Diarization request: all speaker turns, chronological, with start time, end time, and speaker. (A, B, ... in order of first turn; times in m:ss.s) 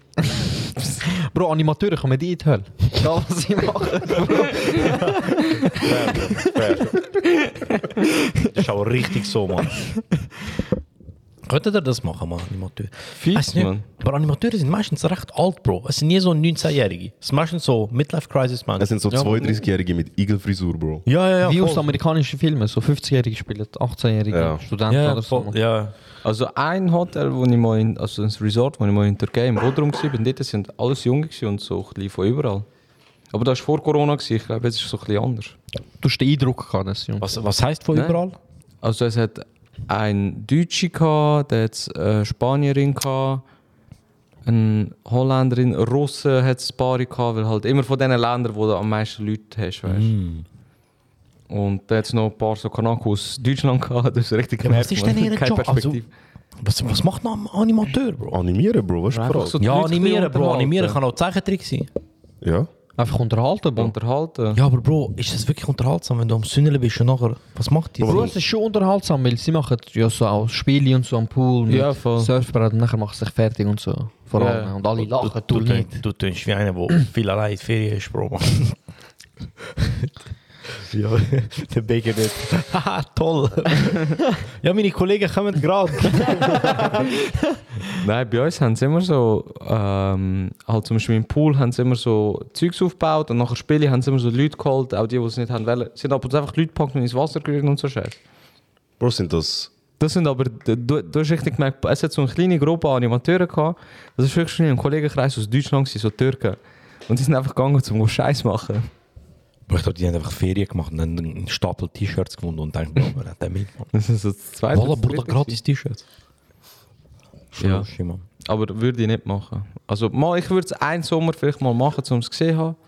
0:00.9-0:05.7 A
0:05.8-0:07.0 B
0:08.5-0:09.8 B
0:11.4-0:18.9 B
0:13.2-0:13.8 C
0:18.8-0:21.0 D
0:19.1-0:19.6 A
0:21.0-0:21.9 B
0:21.4-0:25.6 A
0:24.3-0:24.6 D
0:24.9-0:25.9 B
0:26.2-0:32.6 C
0:33.3-0:35.6 C
0:36.0-0:37.3 A
0:37.2-0:38.4 B
0:37.9-0:38.2 C
0:38.8-0:43.4 C
0:44.4-0:50.1 C
0:49.8-0:50.4 B
0:51.5-0:56.1 C
0:54.6-0:56.0 B
0:56.6-0:58.4 B
0:58.3-0:59.6 D
0:59.1-1:01.0 C
0:59.6-1:01.9 B
1:02.4-1:02.7 D
1:03.0-1:03.9 A
1:03.7-1:04.6 C
1:04.5-1:08.3 B
1:08.0-1:08.4 D
1:08.0-1:16.0 A
1:11.7-1:12.3 C
1:14.3-1:14.7 C
1:15.0-1:18.8 B
1:20.8-1:26.9 B
1:27.9-1:38.2 C
1:39.0-1:39.7 D
1:40.0-1:48.9 C
1:49.7-1:53.9 B
1:53.9-1:55.6 C
1:54.7-1:56.0 B
1:57.5-1:58.2 B
1:57.6-1:57.9 C
1:58.4-2:02.8 C